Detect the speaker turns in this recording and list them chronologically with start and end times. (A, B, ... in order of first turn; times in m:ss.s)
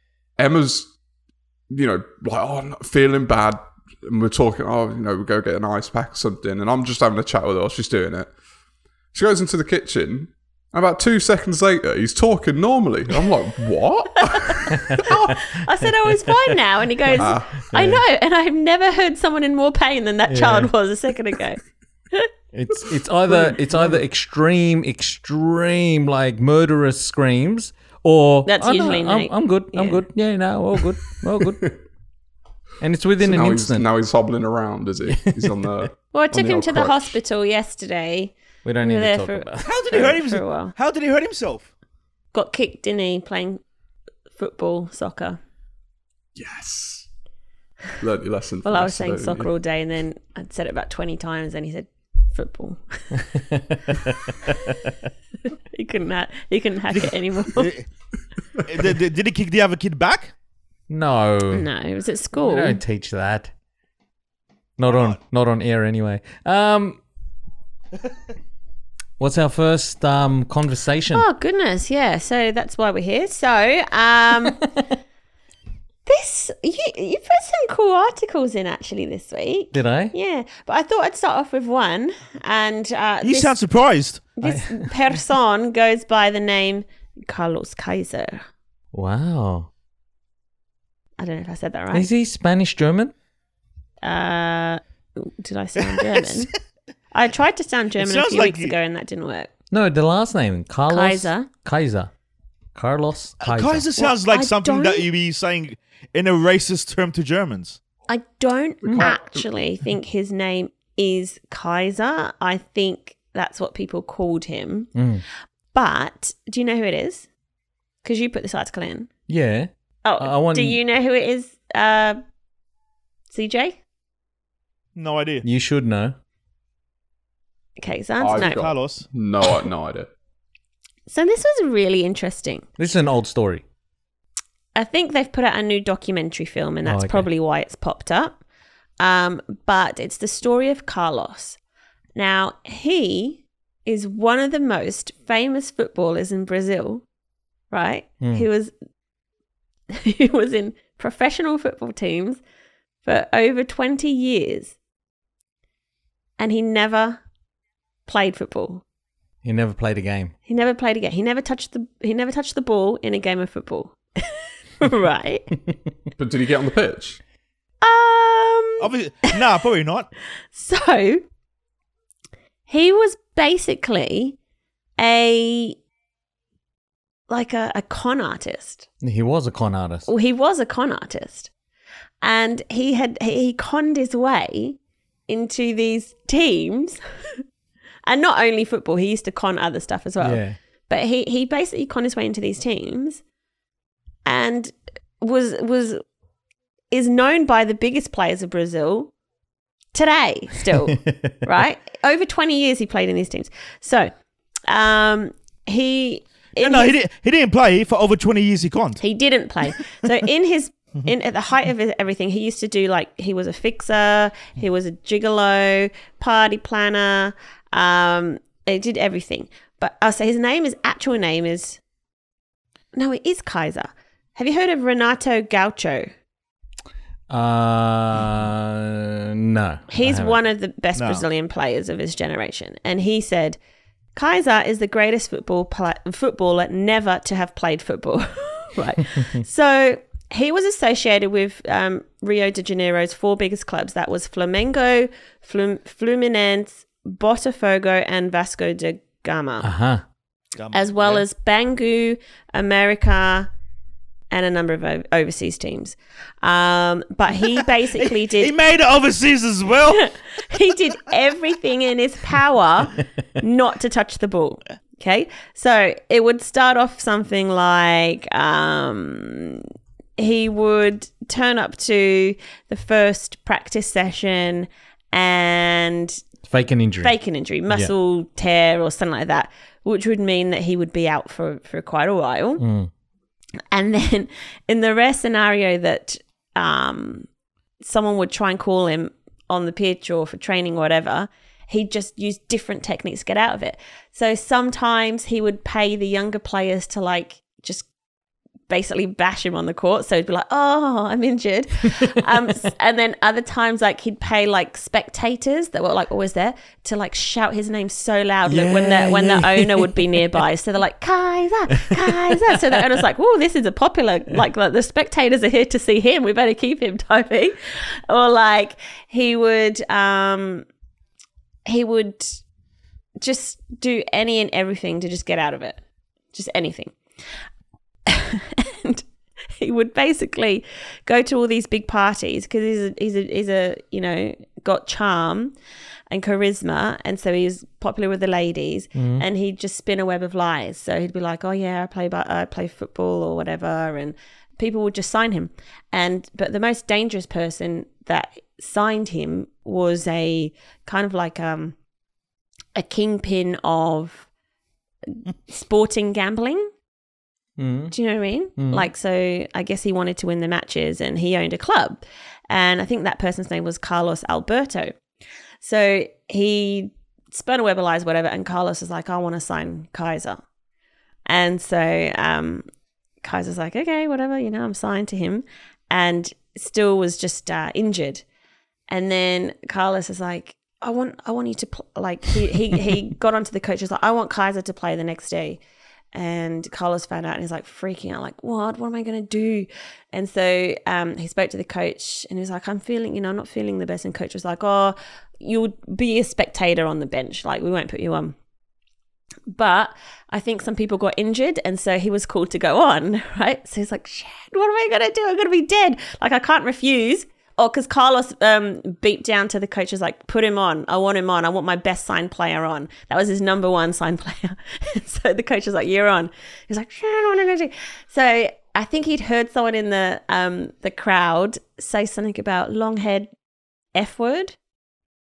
0:00.4-0:00.9 A
0:01.7-0:08.3 A
0:09.1-0:15.3 A
0:14.3-0:21.6 B
0:14.7-0:15.1 C
0:17.1-0:18.0 C
0:17.2-0:17.6 A
0:20.3-0:20.7 C
0:22.5-0:31.7 C
0:23.3-0:24.0 A
0:28.4-0:30.0 B
0:31.4-0:31.8 A
0:32.8-0:33.8 C
0:33.2-0:37.2 A
0:35.1-0:35.9 C
0:36.1-0:40.7 B
0:38.6-0:40.1 C
0:39.6-0:41.7 D
0:42.3-0:43.6 B
0:44.3-0:45.4 B
0:46.3-0:47.1 A
0:48.0-0:49.5 A
0:48.6-0:53.2 B
0:53.3-0:54.4 C
0:55.5-0:57.7 B
0:56.9-0:57.9 D
0:58.6-1:00.3 D
1:00.9-1:01.6 C
1:01.5-1:02.8 B
1:02.4-1:03.5 C
1:04.8-1:07.0 C
1:04.9-1:05.2 D
1:09.2-1:11.2 C
1:11.1-1:14.6 B
1:16.0-1:23.6 B
1:19.7-1:20.1 C
1:23.2-1:24.2 D
1:24.4-1:28.4 B
1:24.4-1:24.9 C
1:28.9-1:29.7 C
1:31.2-1:32.1 B
1:31.9-1:33.1 C
1:34.0-1:36.5 B
1:35.8-1:36.5 D
1:37.1-1:39.5 B
1:38.0-1:38.7 D
1:39.7-1:42.1 C
1:40.9-1:41.5 B
1:42.7-1:43.9 C
1:43.4-1:47.8 D
1:44.0-1:45.1 B
1:48.1-1:54.9 B
1:48.8-1:49.4 A
1:54.9-1:55.2 C
1:55.7-1:57.3 B
1:58.0-1:59.1 B
1:59.3-2:00.8 C
2:00.0-2:02.2 B
2:03.3-2:03.8 B
2:04.9-2:05.4 D
2:05.4-2:06.1 C
2:07.8-2:08.6 B
2:08.2-2:10.1 A
2:08.3-2:09.1 D
2:11.1-2:12.6 B
2:12.8-2:13.6 C
2:14.8-2:18.4 B
2:16.8-2:17.3 C
2:19.0-2:21.6 B
2:22.2-2:27.0 B
2:27.7-2:28.7 B
2:28.2-2:28.4 C
2:29.9-2:32.4 B
2:33.0-2:34.8 B
2:36.4-2:37.2 B
2:38.0-2:38.8 B
2:39.4-2:40.3 C
2:40.5-2:45.6 B
2:46.2-2:47.2 A
2:47.8-2:48.9 B
2:48.8-2:50.1 D
2:50.5-2:51.2 B
2:52.7-2:54.4 B
2:55.0-2:55.8 B
2:57.3-2:58.9 B
2:59.0-3:00.1 C
3:00.1-3:01.5 B
3:02.2-3:04.8 B
3:05.3-3:07.0 B
3:08.0-3:13.2 B
3:10.2-3:10.6 C
3:14.2-3:16.0 B
3:16.9-3:19.1 B
3:19.9-3:24.1 B
3:24.7-3:26.9 B
3:26.6-3:29.0 D
3:29.0-3:41.8 B
3:42.9-3:46.1 B
3:47.3-3:50.4 C
3:49.9-3:53.6 B
3:51.0-3:51.2 D
3:54.1-4:09.7 B
4:09.6-4:10.0 C
4:10.5-4:11.2 D
4:10.7-4:13.5 B
4:14.3-4:18.5 B
4:18.0-4:20.1 D
4:19.9-4:29.6 B
4:30.2-4:36.2 B
4:36.5-4:37.1 C
4:37.0-4:42.6 B
4:42.6-4:42.9 C
4:43.7-4:47.3 B
4:47.8-4:57.9 B
4:58.7-5:20.6 B
5:08.5-5:10.4 C
5:11.8-5:12.9 C
5:21.7-5:22.4 B
5:23.2-5:25.8 B
5:26.3-5:26.9 B
5:28.1-5:29.0 B
5:29.6-5:35.5 B
5:36.1-5:51.8 B
5:38.9-5:39.2 C
5:52.8-5:54.3 B
5:55.5-5:56.7 B
5:57.6-5:57.9 C
5:57.9-6:04.9 B
5:58.6-5:58.9 C
6:05.6-6:10.4 B
6:11.3-6:12.6 B
6:13.2-6:18.2 B
6:18.9-6:25.6 B
6:26.1-6:38.4 B
6:39.5-7:03.3 B
7:03.9-7:04.5 B